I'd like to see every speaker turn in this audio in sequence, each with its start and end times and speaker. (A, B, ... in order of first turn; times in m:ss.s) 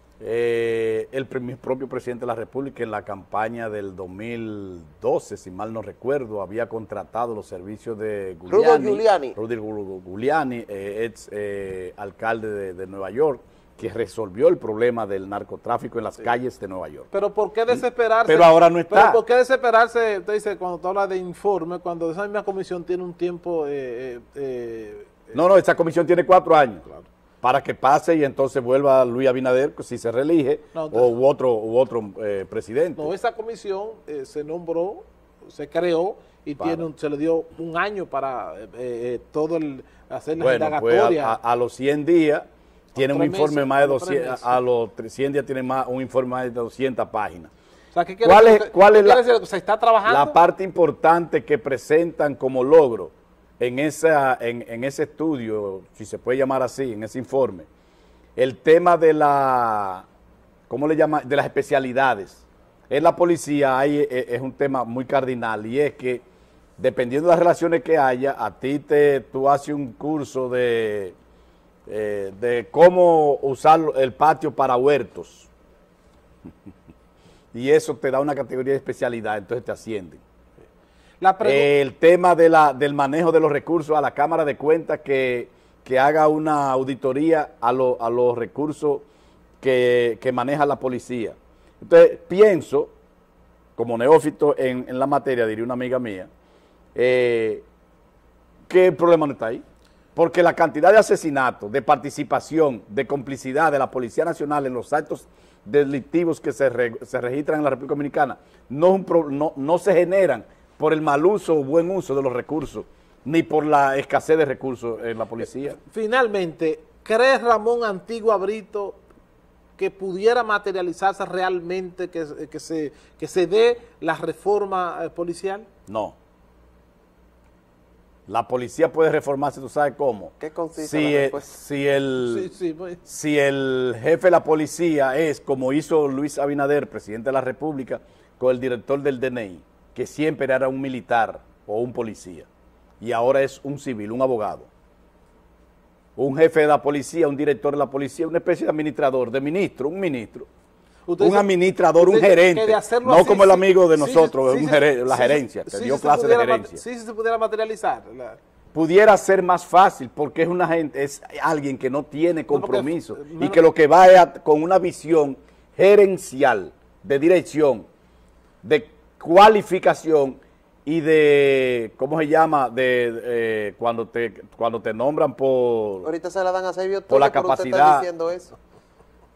0:00.2-0:17.1 A
0:08.5-0:09.4 B
0:17.1-0:25.2 C
0:17.7-0:19.2 A
0:25.3-0:26.8 A
0:27.4-0:33.1 A
0:30.7-0:31.1 C
0:33.0-0:41.4 C
0:36.6-0:36.9 A
0:40.4-0:47.5 A
0:42.9-0:44.6 C
0:47.9-0:50.4 C
0:48.2-0:49.2 A
0:50.0-0:57.7 A
0:58.4-1:00.0 A
1:00.7-1:06.2 A
1:06.8-1:11.1 A
1:11.9-1:15.5 A
1:17.5-1:20.2 A
1:21.2-1:21.7 C
1:21.4-1:29.0 A
1:29.6-1:32.9 A
1:33.8-1:36.3 A
1:36.9-1:37.6 A
1:38.7-1:39.6 A
1:40.2-1:55.8 A
1:55.6-1:59.0 C
1:59.8-2:05.7 C
2:05.9-2:06.2 A
2:08.3-2:12.5 A
2:10.4-2:11.6 B
2:12.2-2:13.0 C
2:13.0-2:22.5 A
2:23.0-2:24.7 A
2:26.2-2:30.5 A
2:31.1-2:38.4 C
2:31.2-2:36.8 A
2:38.7-2:47.8 A
2:42.5-2:43.6 C
2:48.6-2:56.1 A
2:56.0-2:58.5 B
2:57.1-2:58.0 A